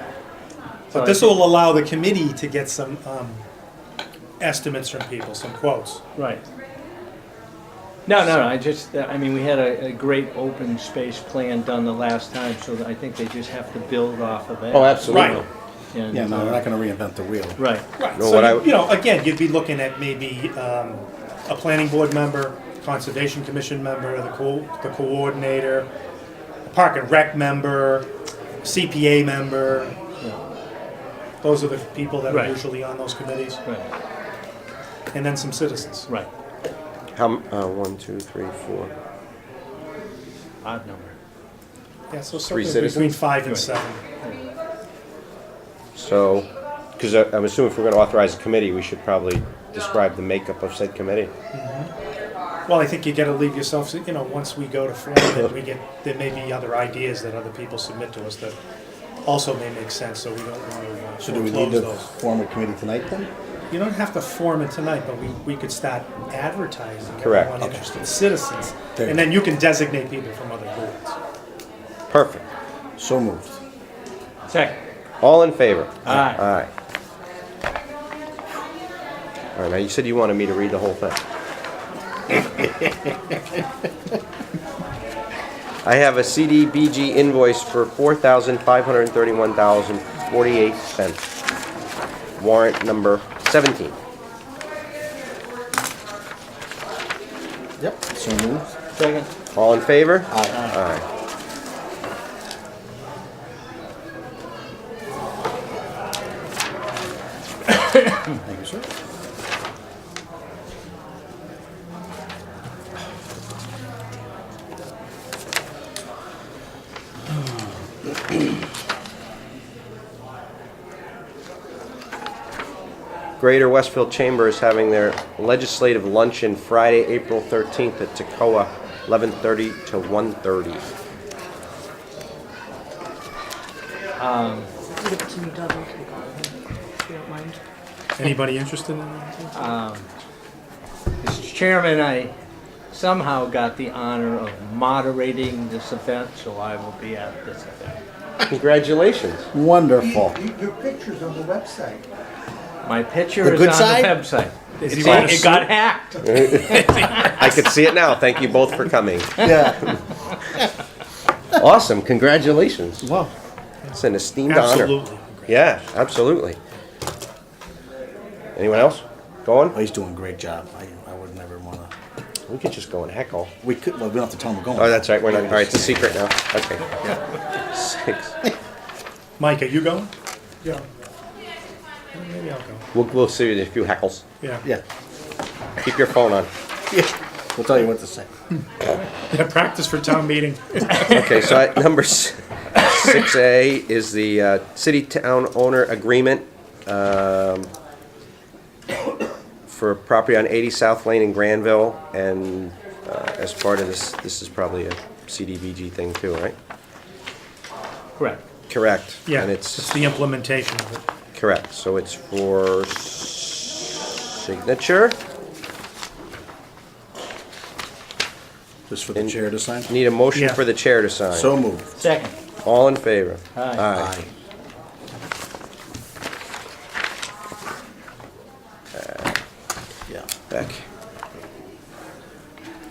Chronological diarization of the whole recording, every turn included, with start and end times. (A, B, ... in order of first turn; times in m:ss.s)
0:00.9-0:01.5 A
0:00.9-0:03.4 B
0:04.4-0:06.0 B
0:06.2-0:06.4 A
0:08.1-0:16.7 A
0:14.7-0:15.5 C
0:15.1-0:15.4 B
0:16.1-0:17.6 D
0:17.6-0:17.9 A
0:18.0-0:25.9 B
0:18.2-0:18.7 C
0:26.7-0:28.1 B
0:28.6-0:30.0 B
0:31.4-0:33.6 B
0:32.3-0:32.6 A
0:35.1-0:36.1 B
0:37.1-0:38.9 C
0:40.6-0:41.2 A
0:42.1-0:44.0 B
0:42.4-0:43.2 C
0:43.5-0:44.4 A
0:46.0-0:51.3 C
0:51.5-0:51.9 B
0:52.7-0:58.6 B
0:59.2-1:02.1 B
1:01.2-1:03.3 D
1:03.7-1:11.2 B
1:07.2-1:07.6 C
1:07.6-1:08.1 D
1:09.0-1:09.2 D
1:12.1-1:12.5 C
1:13.0-1:13.6 D
1:14.5-1:14.8 A
1:15.2-1:16.7 C
1:16.0-1:16.4 A
1:19.6-1:21.2 C
1:25.8-1:31.2 C
1:32.4-1:34.0 C
1:37.8-1:38.8 D
1:39.0-1:39.3 A
1:39.5-1:41.0 C
1:40.3-1:40.7 D
1:48.4-1:48.9 D
1:57.3-1:57.8 D
2:03.4-2:10.9 C
2:14.2-2:14.7 A
2:15.0-2:17.6 E
2:15.1-2:16.3 F
2:17.1-2:17.6 F
2:18.2-2:19.5 B
2:19.5-2:20.1 A
2:21.2-2:22.3 A
2:22.9-2:28.0 A
2:28.5-2:29.5 C
2:29.5-2:30.4 D
2:30.5-2:32.0 F
2:32.8-2:37.6 A
2:33.4-2:34.2 D
2:34.8-2:35.7 B
2:36.2-2:40.0 C
2:39.4-2:40.0 D
2:41.5-2:43.1 C
2:43.0-2:43.3 D
2:43.8-2:45.6 B
2:43.9-2:45.0 C
2:45.5-2:46.6 C
2:48.6-2:49.8 C
2:49.7-2:51.9 D
2:52.5-2:53.5 C
2:53.6-2:56.2 D
2:54.8-2:57.0 C
2:57.7-2:58.4 C
2:59.4-3:00.1 B
3:02.1-3:02.9 B
3:02.9-3:04.2 C
3:04.4-3:04.7 B
3:05.8-3:06.5 C
3:06.9-3:08.3 D
3:09.3-3:11.5 B
3:11.0-3:17.7 C
3:19.7-3:26.6 C
3:28.7-3:30.0 C
3:29.3-3:31.0 B
3:31.3-3:35.2 C
3:38.9-3:39.9 D
3:39.9-3:41.5 C
3:40.3-3:40.6 B
3:41.3-3:41.9 D
3:42.0-3:42.4 A
3:42.6-3:44.1 C
3:43.6-3:43.9 A
3:43.9-3:44.3 D
3:48.9-3:49.4 C
3:50.5-3:50.8 C